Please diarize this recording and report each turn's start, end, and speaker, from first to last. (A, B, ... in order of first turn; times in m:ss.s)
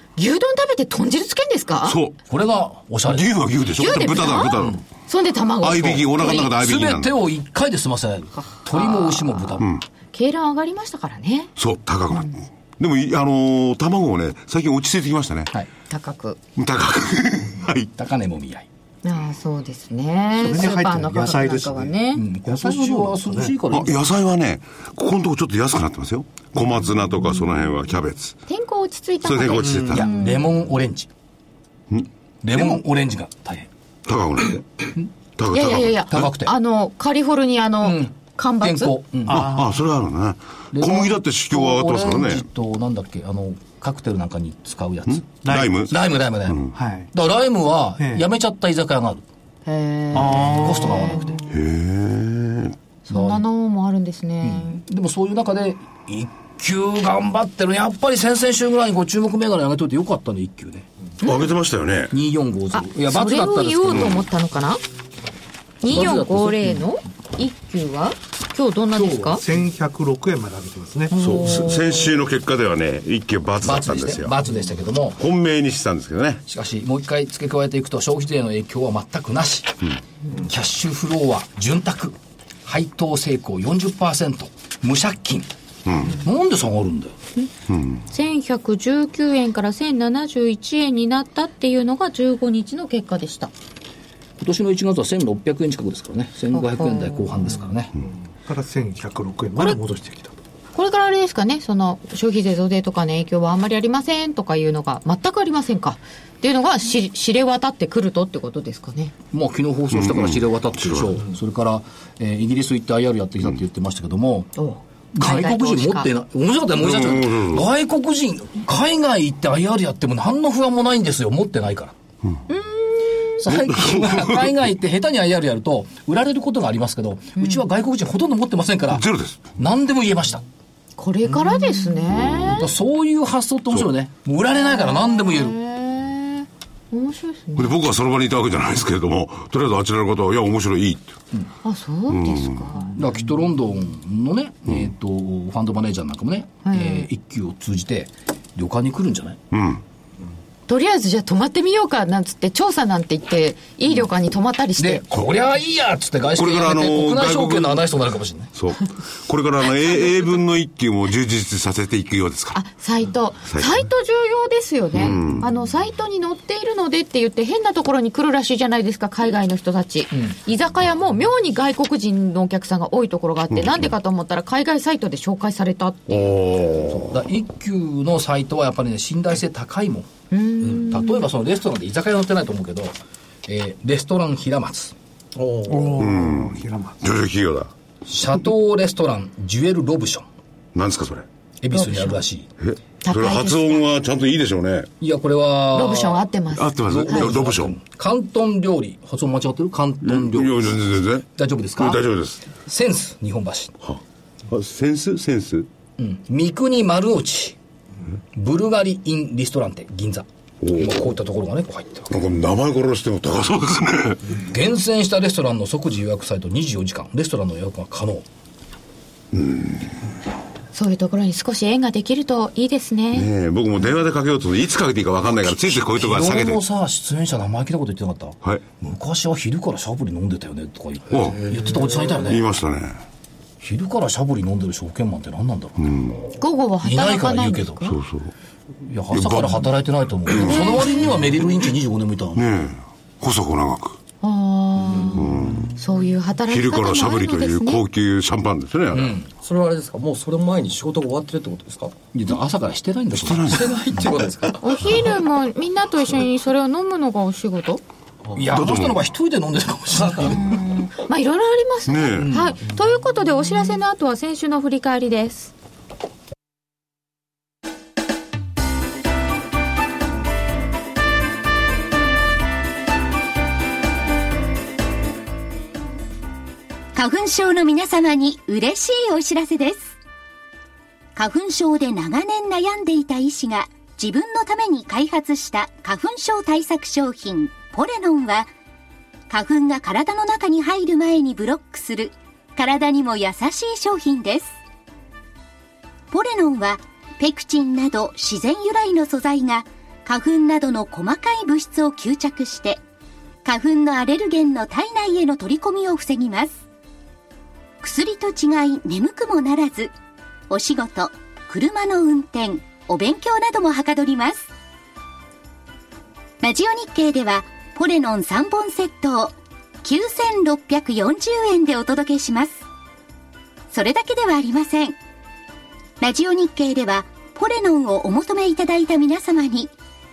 0:00.2-0:02.0 A
0:01.8-0:02.2 B
0:02.3-0:03.3 C
0:03.1-0:04.8 B
0:03.8-0:06.5 A
0:05.6-0:07.1 B
0:06.3-0:09.7 C
0:08.4-0:11.5 A
0:11.6-0:15.5 B
0:15.9-0:16.4 A
0:16.6-0:17.9 B
0:18.0-0:18.7 C
0:19.0-0:22.2 A
0:20.4-0:23.6 D
0:22.1-0:24.0 C
0:23.7-0:28.4 B
0:28.5-0:30.5 A
0:29.2-0:30.1 B
0:29.6-0:30.0 D
0:29.9-0:31.1 C
0:32.4-0:33.7 C
0:34.1-0:34.7 B
0:35.4-0:36.2 B
0:35.5-0:38.9 A
0:36.1-0:36.5 C
0:37.8-0:39.6 C
0:39.3-0:39.8 D
0:39.3-0:42.4 B
0:40.7-0:49.2 C
0:45.1-0:45.9 B
0:45.4-0:45.8 D
0:46.7-0:47.1 D
0:48.0-0:48.2 D
0:49.7-0:51.3 A
0:50.1-0:51.4 C
0:50.2-0:51.2 D
0:51.5-0:52.8 B
0:53.1-0:54.8 A
0:53.1-0:53.4 C
0:54.4-1:00.8 C
1:01.2-1:01.5 A
1:01.2-1:02.1 B
1:02.1-1:04.2 C
1:02.7-1:04.8 A
1:05.8-1:09.4 A
1:05.8-1:06.9 C
1:08.9-1:09.4 C
1:09.3-1:11.1 D
1:11.1-1:12.0 A
1:11.2-1:14.4 B
1:13.6-1:15.2 C
1:15.2-1:16.4 B
1:16.5-1:19.8 C
1:20.4-1:25.5 C
1:25.8-1:26.2 B
1:26.0-1:27.2 C
1:27.7-1:28.0 B
1:28.1-1:33.5 A
1:34.4-1:37.9 C
1:36.5-1:37.6 A
1:38.4-1:40.4 D
1:40.7-1:49.1 A
1:49.3-1:54.5 C
1:50.0-1:51.1 B
1:54.6-1:56.1 A
1:55.2-2:02.0 C
1:56.8-1:57.6 B
2:02.5-2:03.4 A
2:03.4-2:09.0 C
2:03.6-2:04.4 B
2:08.9-2:09.5 B
2:09.6-2:10.4 C
2:11.0-2:12.7 A
2:11.5-2:11.8 D
2:12.2-2:12.5 B
2:12.5-2:15.6 C
2:14.6-2:17.7 A
2:17.6-2:21.2 B
2:21.6-2:23.0 A
2:22.1-2:22.7 B
2:22.9-2:29.4 C
2:26.6-2:27.1 A
2:29.5-2:29.8 B
2:30.7-2:35.0 A
2:34.8-2:38.5 C
2:36.4-2:37.8 B
2:38.6-2:42.6 B
2:42.5-2:56.3 A
2:43.5-2:43.8 B
2:45.0-2:45.5 B
2:53.5-2:53.8 B
2:56.1-2:57.1 B
2:56.9-3:00.1 C
3:00.3-3:01.3 A
3:00.6-3:04.9 C
3:05.3-3:06.0 E
3:05.7-3:07.0 D
3:06.0-3:07.7 B
3:08.1-3:10.3 C
3:10.7-3:11.2 B
3:11.6-3:12.5 C
3:11.7-3:12.2 A
3:12.6-3:14.9 B
3:13.0-3:13.8 A
3:15.0-3:16.2 C
3:15.7-3:17.2 A
3:16.5-3:17.8 B
3:16.8-3:20.8 C
3:20.0-3:21.2 B
3:21.3-3:22.0 C
3:21.8-3:22.4 B
3:22.6-3:23.7 C
3:23.8-3:25.7 B
3:26.0-3:27.6 C
3:28.3-3:32.1 C
3:30.6-3:30.9 B
3:32.1-3:34.2 B
3:34.4-3:38.2 C
3:39.3-3:39.9 B
3:40.7-3:43.3 A
3:43.1-3:46.6 B
3:45.6-3:52.4 C
3:51.1-3:51.5 B
3:52.2-3:53.0 B
3:53.6-3:56.2 C
3:55.8-3:56.2 B
3:56.4-3:58.0 A
3:56.8-3:57.9 C
3:57.9-3:58.3 B
3:58.8-4:02.4 C
3:59.1-3:59.7 B
4:00.3-4:00.6 B
4:00.4-4:01.1 A
4:02.4-4:04.0 B
4:04.2-4:07.8 A
4:04.9-4:05.6 E
4:05.2-4:05.7 B
4:06.5-4:09.2 B
4:08.9-4:09.3 C
4:09.4-4:11.9 E
4:12.1-4:14.2 C
4:13.1-4:13.7 B
4:13.5-4:14.9 E
4:14.6-4:17.8 A
4:18.4-4:20.6 C
4:18.5-4:19.0 B
4:20.2-4:25.5 A
4:21.9-4:22.3 B
4:22.2-4:22.5 C
4:36.9-4:39.9 F
4:41.2-4:48.5 F
4:49.3-4:54.6 F
4:56.1-5:02.8 F
5:03.4-5:06.6 F
5:07.8-5:09.9 F
5:10.5-5:14.5 F
5:16.4-5:22.6 F
5:23.7-5:25.0 F
5:26.0-5:29.7 F